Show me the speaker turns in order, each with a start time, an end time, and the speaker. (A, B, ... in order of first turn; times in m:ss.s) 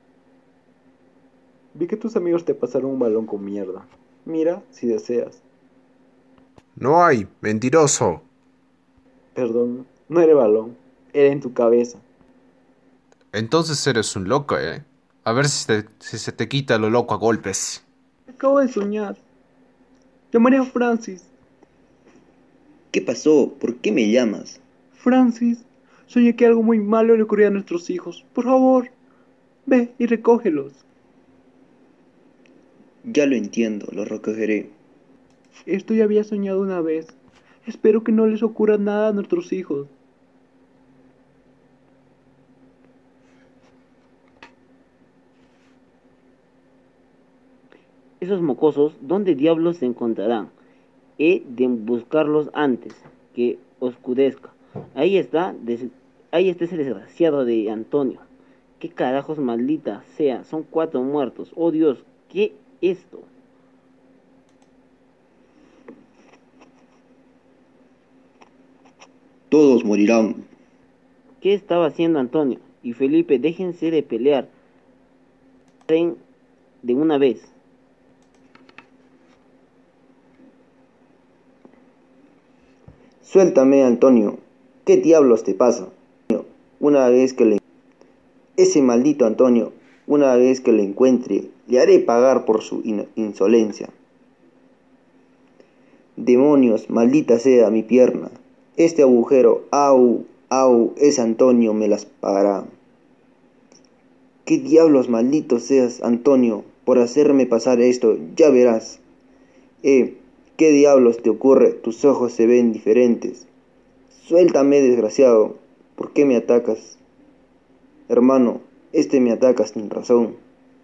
0:01.7-0:05.4 A
0:06.8-0:08.2 B
0:09.3-0:12.0 A
0:13.3-0:17.8 B
0:18.3-0:19.2 A
0:20.3-0:21.3 A
0:22.9-0:24.6 C
0:24.9-0:28.9 A
0:29.6-0:30.8 A
0:33.0-0:34.7 C
0:35.7-0:39.9 A
0:48.2-0:50.5 D
0:51.2-0:58.2 D
0:58.8-1:03.3 D
1:09.5-1:10.5 C
1:11.4-1:14.5 D
1:15.9-1:16.2 D
1:16.8-1:17.5 D
1:23.2-1:27.6 C
1:28.6-1:33.9 C
1:36.2-1:42.7 C
1:44.4-1:49.0 C
1:49.8-1:53.5 C
1:54.1-1:57.0 C
1:58.1-2:00.4 C